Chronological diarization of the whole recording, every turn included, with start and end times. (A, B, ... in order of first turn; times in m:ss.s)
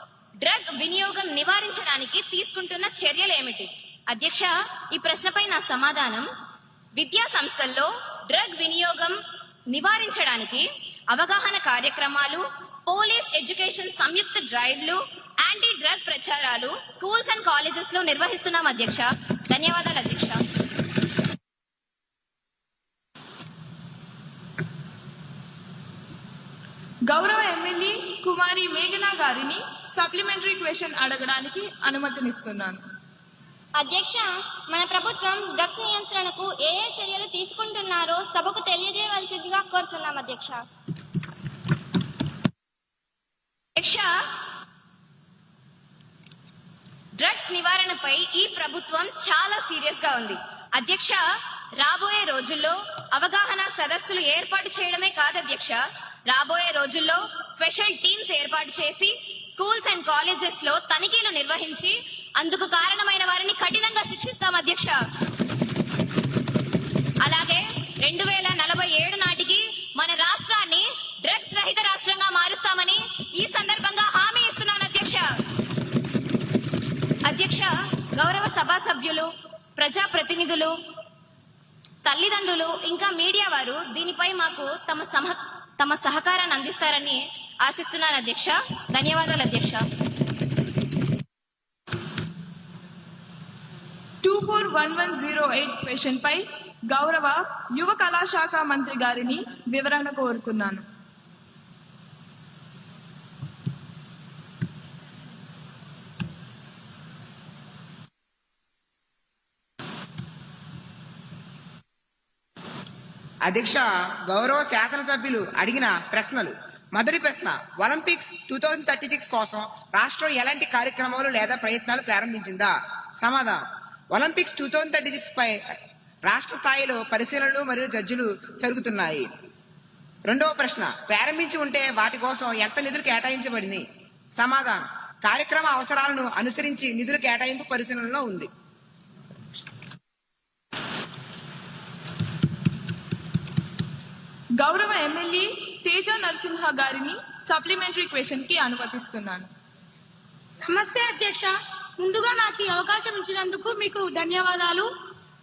0:00.4-0:06.3 A
0:07.0-0:09.2 A
0:09.7-0:20.4 A
0:27.1-0:32.8 B
0:33.7-0:40.6 C
0:43.8-0:44.1 A
0:47.2-0:51.2 A
0:51.8-1:05.0 A
1:07.2-1:15.3 A
1:17.2-1:20.7 A
1:22.0-1:29.8 A
1:34.2-1:40.8 B
1:53.5-2:03.6 D
2:04.1-2:05.6 D
2:06.3-2:09.3 D
2:10.3-2:13.8 D
2:14.4-2:18.5 D
2:24.6-2:29.5 B
2:30.6-2:34.9 E